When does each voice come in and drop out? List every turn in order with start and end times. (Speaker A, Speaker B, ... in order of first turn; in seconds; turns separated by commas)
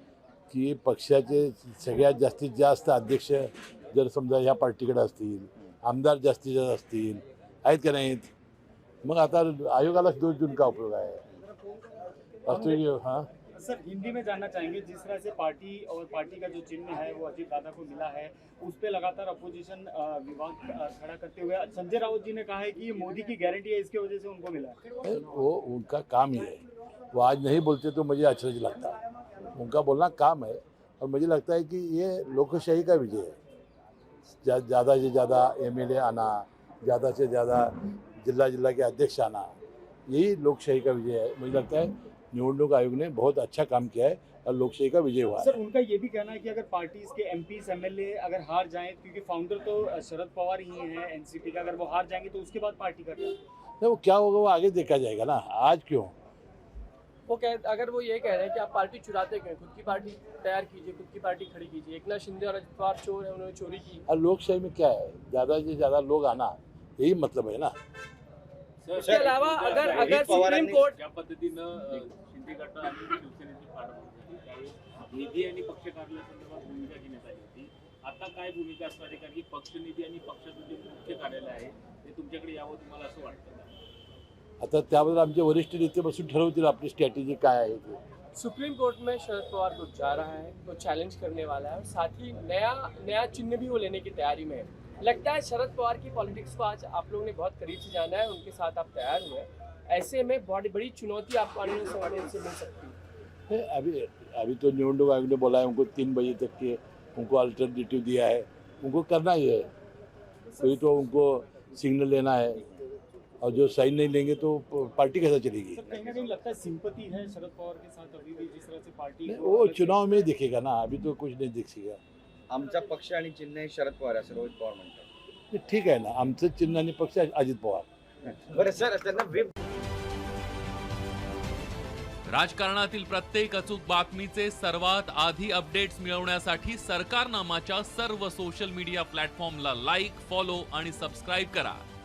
Speaker A: 0.5-8.3, Speaker A: 9.0-11.2, Speaker A: 12.4-13.3, Speaker B: 12.5-12.7, Speaker B: 13.6-24.8, Speaker A: 25.0-29.0, Speaker A: 29.5-33.3, Speaker A: 34.4-39.5, Speaker A: 40.1-45.5, Speaker B: 45.4-53.4, Speaker A: 53.8-56.1, Speaker C: 57.3-64.0, Speaker A: 64.1-67.7, Speaker D: 68.8-83.7, Speaker E: 69.0-70.9, Speaker C: 69.0-71.0, Speaker A: 84.6-88.0, Speaker C: 88.3-103.0, Speaker A: 103.5-109.7, Speaker A: 110.6-112.6, Speaker A: 113.4-115.8, Speaker B: 115.8-119.9, Speaker E: 115.8-116.5, Speaker A: 119.3-122.0, Speaker E: 122.5-125.0, Speaker A: 125.5-127.9, Speaker E: 128.3-129.5, Speaker F: 132.2-141.8